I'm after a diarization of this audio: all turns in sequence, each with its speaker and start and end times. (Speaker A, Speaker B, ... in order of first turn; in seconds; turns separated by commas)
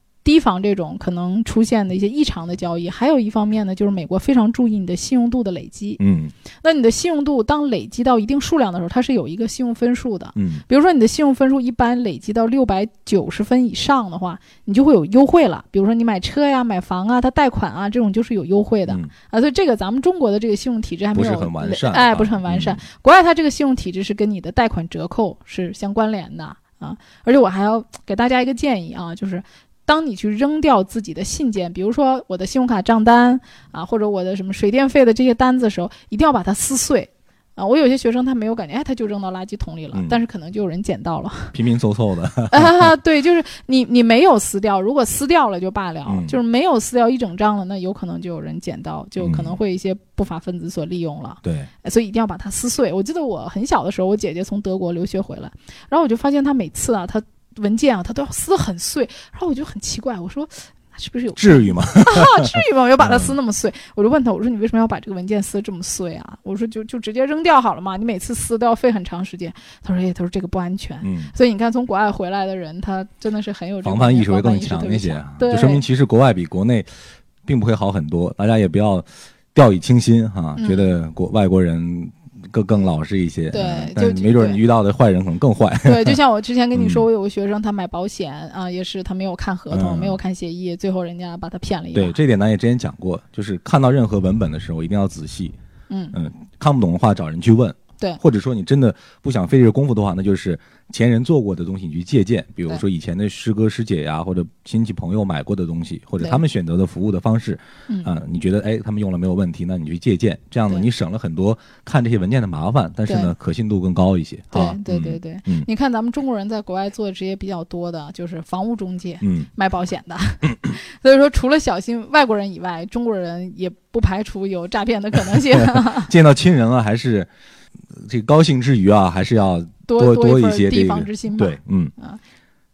Speaker A: 0.2-6.0, Speaker B: 6.0-6.3, Speaker A: 6.6-41.5, Speaker B: 10.3-10.7, Speaker B: 21.1-22.8, Speaker B: 39.9-40.2, Speaker B: 41.5-42.9, Speaker A: 42.5-75.8, Speaker B: 46.1-46.4, Speaker B: 49.2-49.6, Speaker B: 51.4-51.7, Speaker B: 61.4-63.4, Speaker B: 71.0-71.3, Speaker B: 73.8-76.9, Speaker B: 77.5-86.2, Speaker A: 80.6-81.0, Speaker A: 83.5-84.6, Speaker A: 85.8-92.2, Speaker B: 86.8-87.0, Speaker B: 89.7-90.2, Speaker B: 91.9-95.6, Speaker A: 95.9-96.2, Speaker B: 96.1-115.7, Speaker A: 113.1-113.3, Speaker A: 114.5-126.1, Speaker B: 119.2-119.5, Speaker B: 125.3-127.3, Speaker B: 127.9-131.9, Speaker A: 129.9-132.2